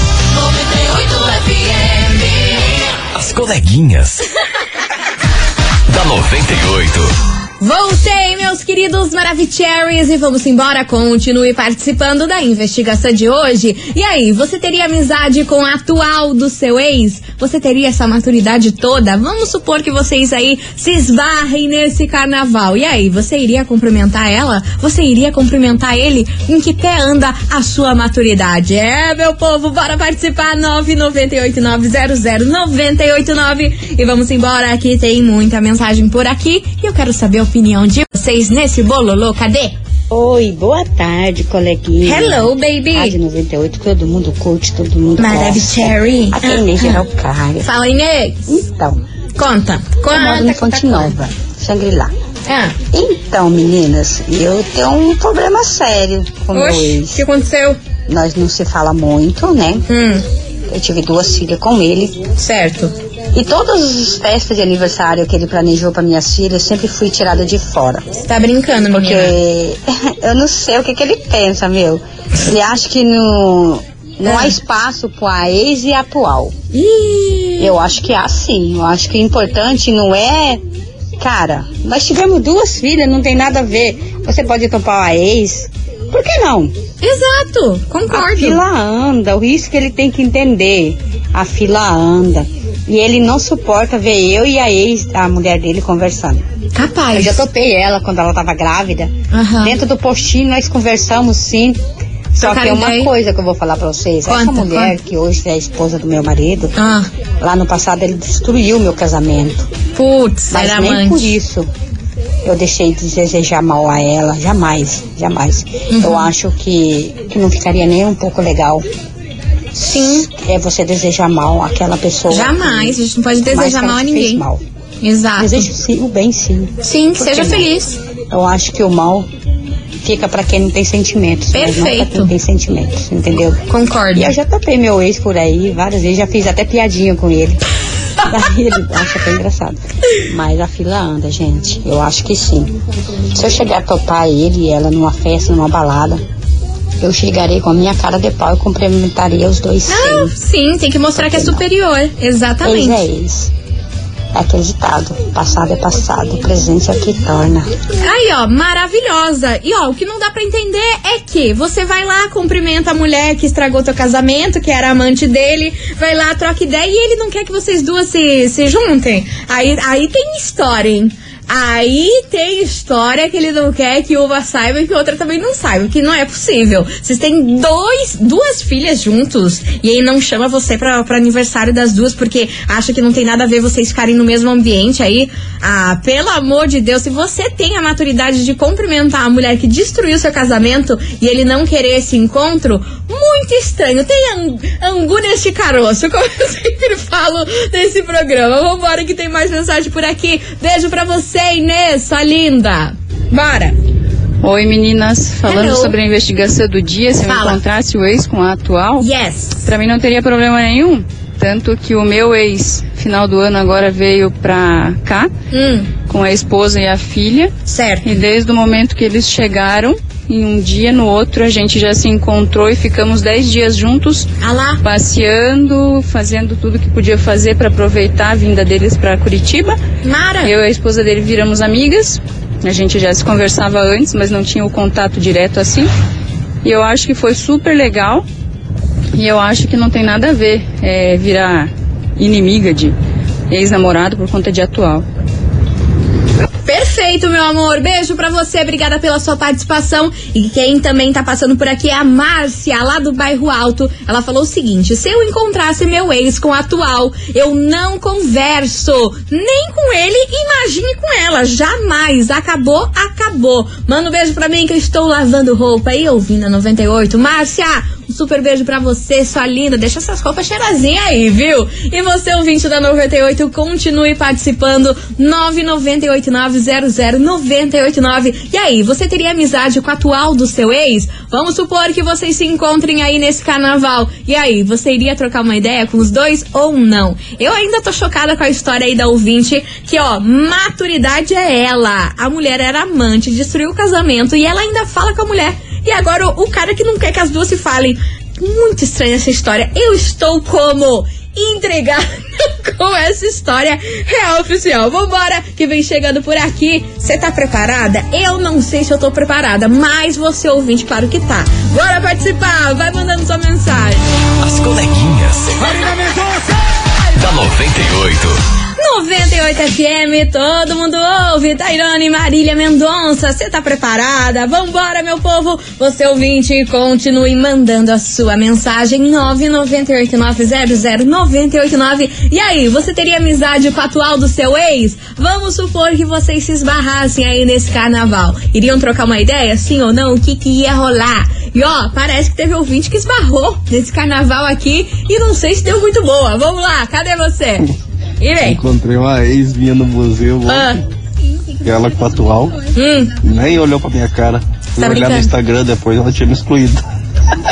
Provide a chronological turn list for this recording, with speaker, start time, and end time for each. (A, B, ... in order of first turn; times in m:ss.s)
0:03.1-0:04.2 A
0:05.9-0:07.1 A
0:07.6-0:39.8 B
0:40.1-0:47.7 C
0:42.0-0:43.2 B
0:45.2-0:47.0 B
0:47.6-0:48.6 B
0:48.5-0:49.0 C
0:49.4-0:51.2 B
0:50.1-0:52.1 C
0:52.5-0:52.8 B
0:52.9-0:57.2 C
0:56.5-0:57.8 B
0:58.1-0:59.9 C
0:59.9-1:00.2 B
1:00.7-1:02.2 C
1:02.4-1:02.9 B
1:03.3-1:08.2 C
1:08.2-1:09.4 B
1:08.9-1:16.6 C
1:14.2-1:14.5 B
1:16.7-1:17.8 B
1:17.6-1:20.6 C
1:21.2-1:26.7 C
1:27.0-1:28.6 B
1:28.1-1:36.5 C
1:36.8-1:37.4 B
1:37.1-1:41.8 C
1:39.3-1:39.8 B
1:42.4-1:46.8 C
1:42.4-1:43.1 B
1:44.3-1:44.9 B
1:46.8-1:47.1 B
1:47.4-1:49.7 C
1:50.0-1:51.4 B
1:50.5-1:51.7 C
1:52.4-1:58.9 C
1:55.9-1:56.3 B
1:59.8-2:00.3 B
1:59.8-2:04.6 C
2:02.3-2:04.4 B
2:05.0-2:05.7 B
2:05.4-2:07.7 C
2:06.8-2:08.0 B
2:08.3-2:09.3 C
2:10.0-2:13.6 C
2:11.5-2:12.3 B
2:13.7-2:14.4 B
2:14.2-2:17.6 C
2:18.3-2:22.7 C
2:23.3-2:26.2 C
2:27.0-2:30.4 C
2:29.9-2:33.0 B
2:31.2-2:31.6 C
2:32.6-2:33.5 C
2:34.3-2:37.8 C
2:38.0-3:23.8 B
3:24.4-3:29.1 D
3:25.4-3:26.0 B
3:27.2-3:27.6 B
3:29.0-3:29.6 B
3:29.6-3:35.3 D
3:35.5-3:35.9 B
3:36.0-3:44.3 D
3:37.7-3:38.1 B
3:44.4-3:44.8 B
3:44.8-3:49.8 D
3:50.0-3:50.6 B
3:50.4-3:55.9 D
3:56.6-3:58.3 D
3:59.2-4:03.0 D
4:03.5-4:05.1 D
4:06.7-5:14.1 B
5:14.4-5:16.0 A
5:17.1-5:18.4 A
5:18.8-5:47.6 B
5:48.2-5:48.6 B
5:48.4-5:50.8 E
5:50.5-5:50.8 B
5:51.6-5:52.7 E
5:52.7-5:53.2 B
5:53.2-5:56.8 E
5:54.8-5:55.3 B